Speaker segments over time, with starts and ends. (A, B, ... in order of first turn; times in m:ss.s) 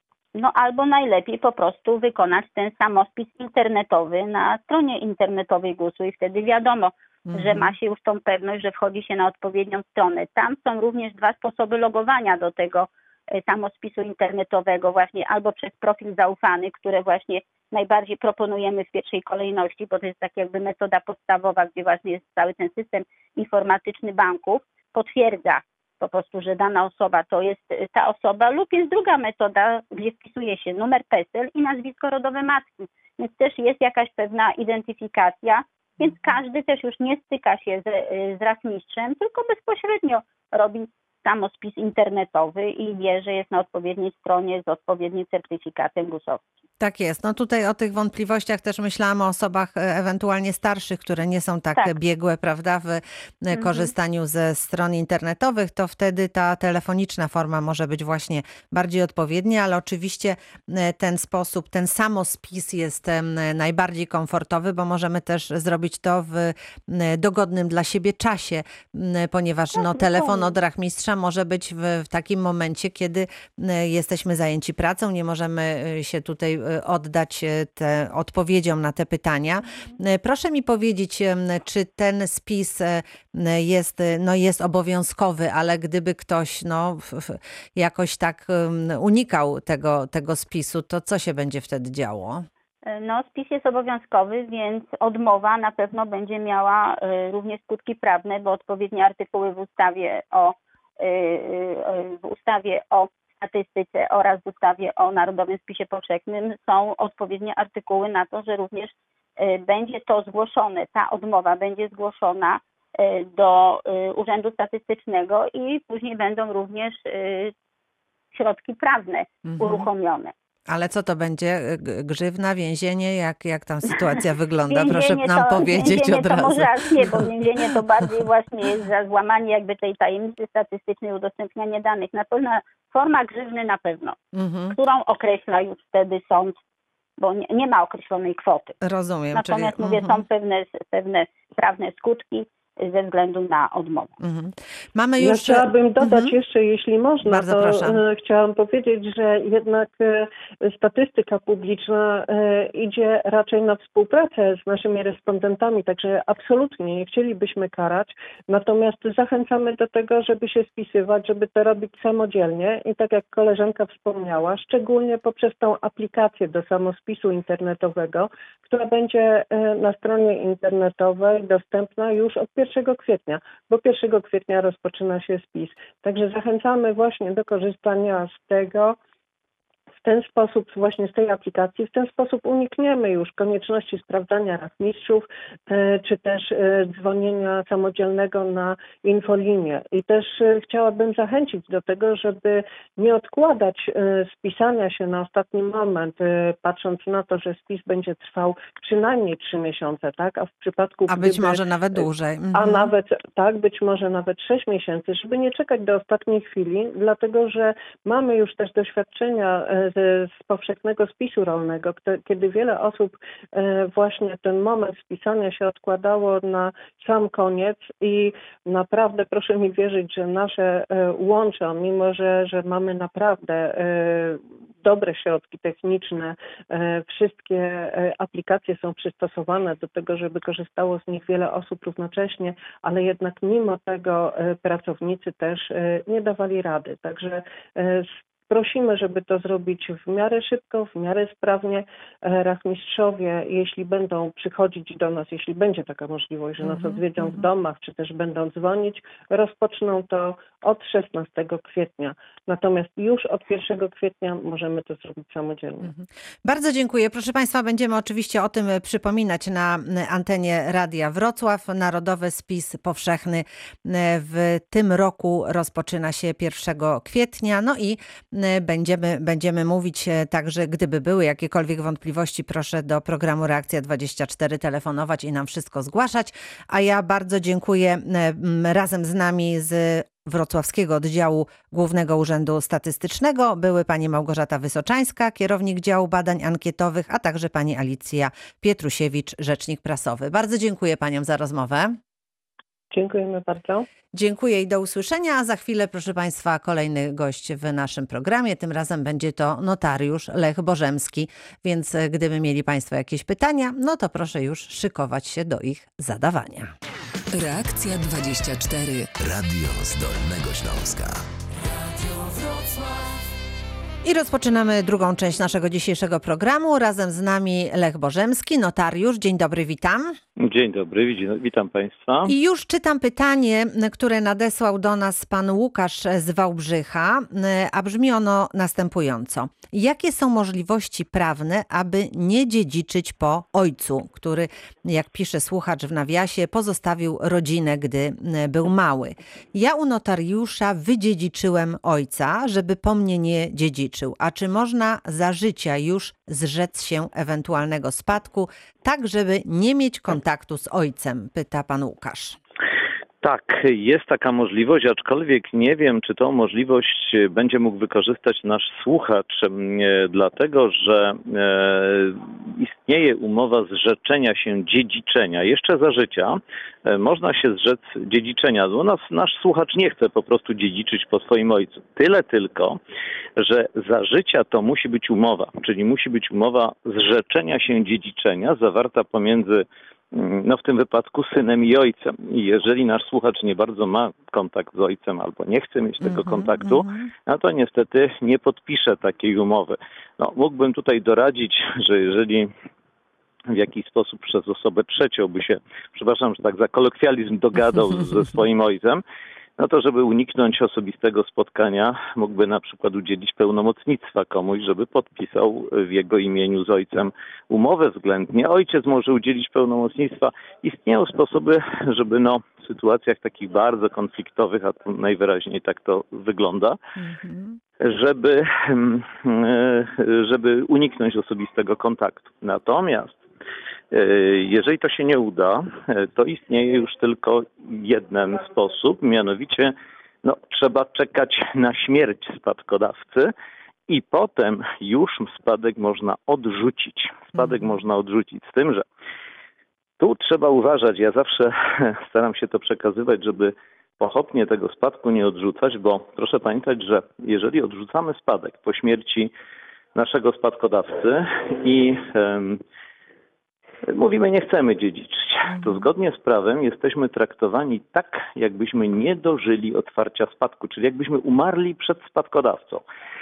0:00.3-0:46.4 A
0:07.3-0:07.7 B
0:46.8-1:32.4 B
0:53.5-0:53.9 A
1:09.8-1:10.5 A
1:32.8-1:57.5 A
1:58.3-2:00.3 A
1:59.5-1:59.9 B
2:00.7-2:07.8 B
2:04.7-2:14.2 A
2:14.3-2:14.8 B
2:14.7-2:16.5 A
2:17.2-2:18.8 A
2:18.8-2:20.2 B
2:19.3-2:24.1 A
2:24.2-2:26.3 B
2:25.2-2:59.0 C
2:27.2-2:28.0 B
3:00.0-4:15.9 C
3:21.1-3:22.9 B
4:06.6-4:07.4 B
4:15.8-4:52.0 B
4:52.9-4:53.8 C
4:54.1-5:06.7 B
5:07.3-5:11.2 D
5:11.8-5:13.0 D
5:14.0-5:20.2 B
5:20.4-5:22.3 E
5:22.2-5:52.4 B
5:53.2-6:12.8 E
6:13.4-6:32.5 E
6:26.0-6:27.1 B
6:33.5-6:39.0 E
6:39.6-6:56.8 E
6:57.0-6:57.6 B
6:57.8-7:03.2 E
7:03.9-7:13.3 E
7:13.9-7:18.8 E
7:17.4-7:17.6 B
7:20.0-7:29.3 E
7:29.9-7:32.6 E
7:33.9-7:42.8 E